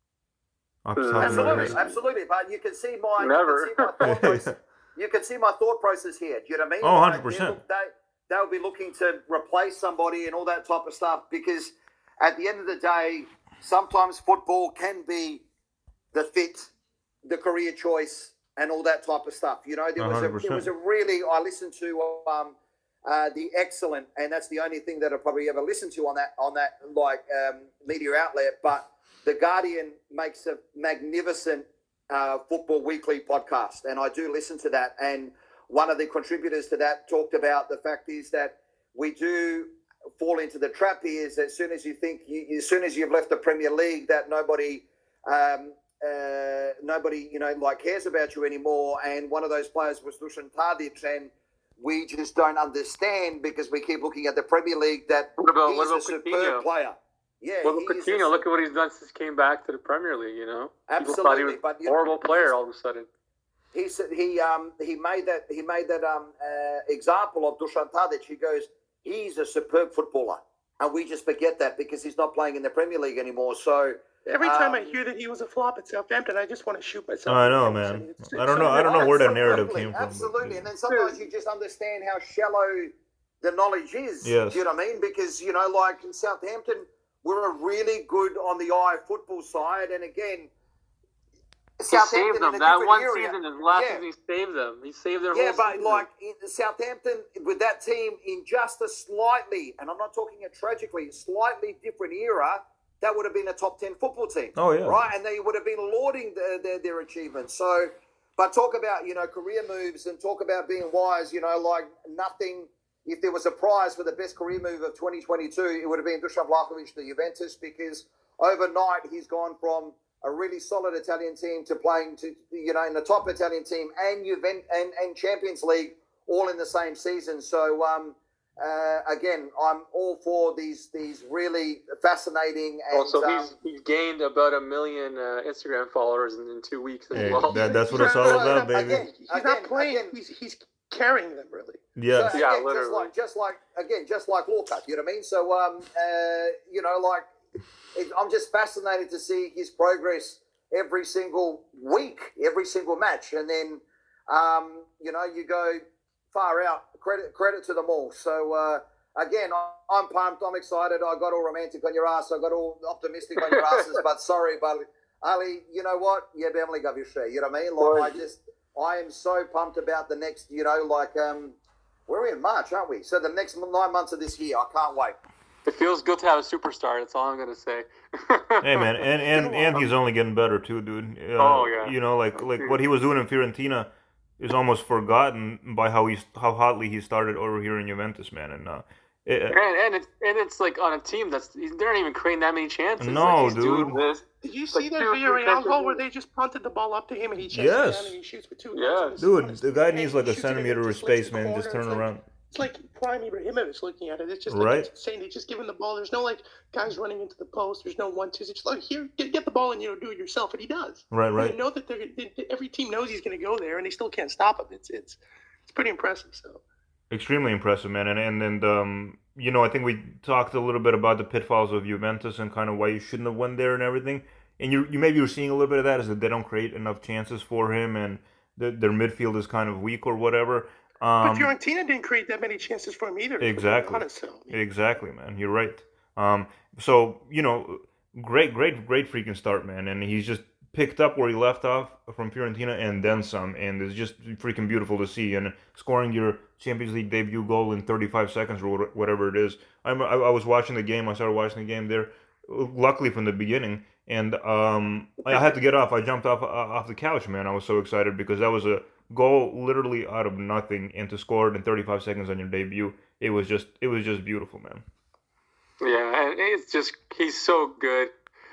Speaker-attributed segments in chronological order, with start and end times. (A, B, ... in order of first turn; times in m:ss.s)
0:00.8-0:01.8 A
0:01.0-0:01.9 B
0:01.2-0:15.4 C
0:03.2-0:04.2 B
0:04.0-0:04.5 A
0:06.8-0:07.6 A
0:16.1-0:16.7 C
0:17.2-0:58.4 C
0:20.0-0:20.7 A
0:55.4-0:56.6 B
0:57.6-1:03.1 B
1:00.9-1:02.5 C
1:03.7-1:15.0 C
1:14.2-1:19.1 D
1:17.2-1:20.6 A
1:18.5-1:30.5 C
1:20.9-1:21.1 B
1:24.2-1:24.6 A
1:31.8-1:34.0 C
1:31.9-1:36.0 B
1:35.3-2:13.5 C
1:44.6-1:45.0 A
2:12.9-2:17.7 B
2:17.1-2:19.0 A
2:17.2-2:21.8 D
2:17.9-2:20.1 C
2:22.0-2:22.4 A
2:22.1-2:27.3 C
2:22.3-2:23.1 B
2:27.9-2:35.8 C
2:36.3-2:51.6 C
2:43.4-2:43.9 B
2:47.8-2:48.1 B
2:52.1-2:55.2 C
2:55.6-2:58.9 B
2:58.6-3:09.6 A
2:59.3-2:59.9 D
3:01.4-3:01.9 B
3:02.5-3:02.8 B
3:09.5-3:16.0 B
3:13.0-3:14.0 A
3:13.3-3:36.6 D
3:17.5-3:18.2 A
3:18.7-3:19.2 B
3:19.2-3:22.2 A
3:24.5-3:24.9 A
3:31.1-3:31.6 A
3:37.1-3:51.5 A
3:51.2-3:54.6 D
3:53.4-4:24.8 A
4:25.8-4:28.1 B